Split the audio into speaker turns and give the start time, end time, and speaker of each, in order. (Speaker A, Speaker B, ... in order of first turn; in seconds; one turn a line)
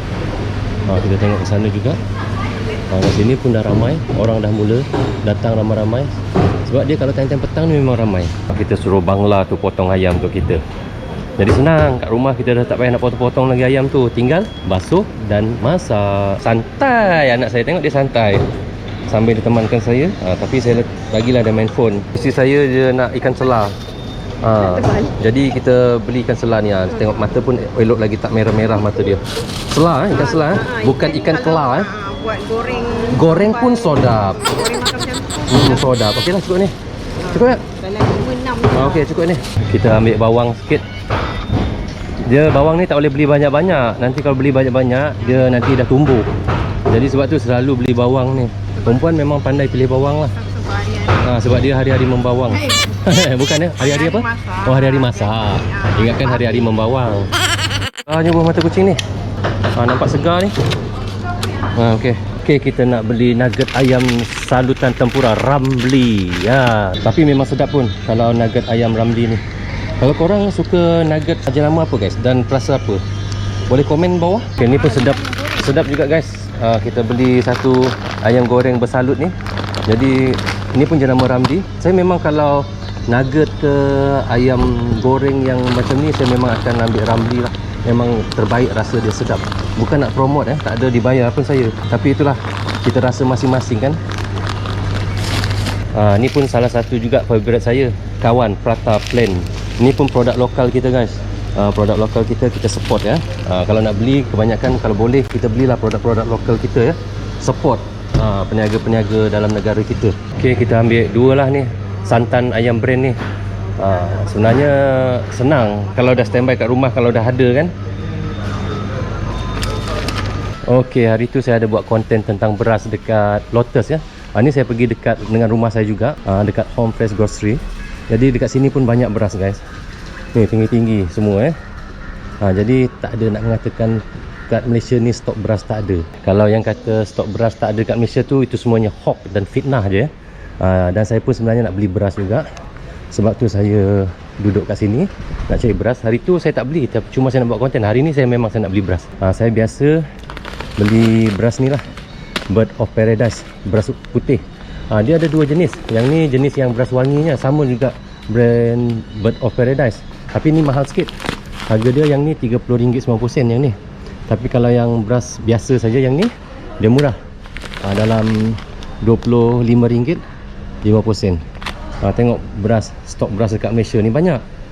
Speaker A: 0.8-2.0
Speaker A: 2.9-10.6
Speaker A: 11.4-18.4
Speaker A: 19.1-23.8
Speaker A: 24.4-31.9
Speaker B: 31.9-33.1
Speaker A: 33.1-34.6
Speaker B: 34.6-35.4
Speaker A: 35.5-36.7
Speaker A: 37.3-37.7
Speaker B: 37.7-38.7
Speaker A: 38.7-40.9
Speaker A: 42.2-46.3
Speaker A: 46.9-50.5
Speaker A: 51.1-57.3
Speaker A: 58.0-59.0
Speaker A: 59.7-60.5
Speaker A: 61.7-69.4
Speaker A: 70.0-73.0
Speaker A: 73.7-79.3
Speaker A: 79.9-94.0
Speaker A: 95.9-113.2
Speaker A: 113.8-117.7
Speaker A: 120.7-129.6
Speaker A: 130.3-131.6
Speaker A: 132.4-142.4
Speaker A: 143.1-150.0
Speaker A: 150.8-151.8
Speaker A: 152.5-161.1
Speaker A: 161.7-163.8
Speaker A: 164.3-167.2
Speaker A: 167.8-170.2
Speaker A: 170.8-171.4
Speaker A: 172.0-174.4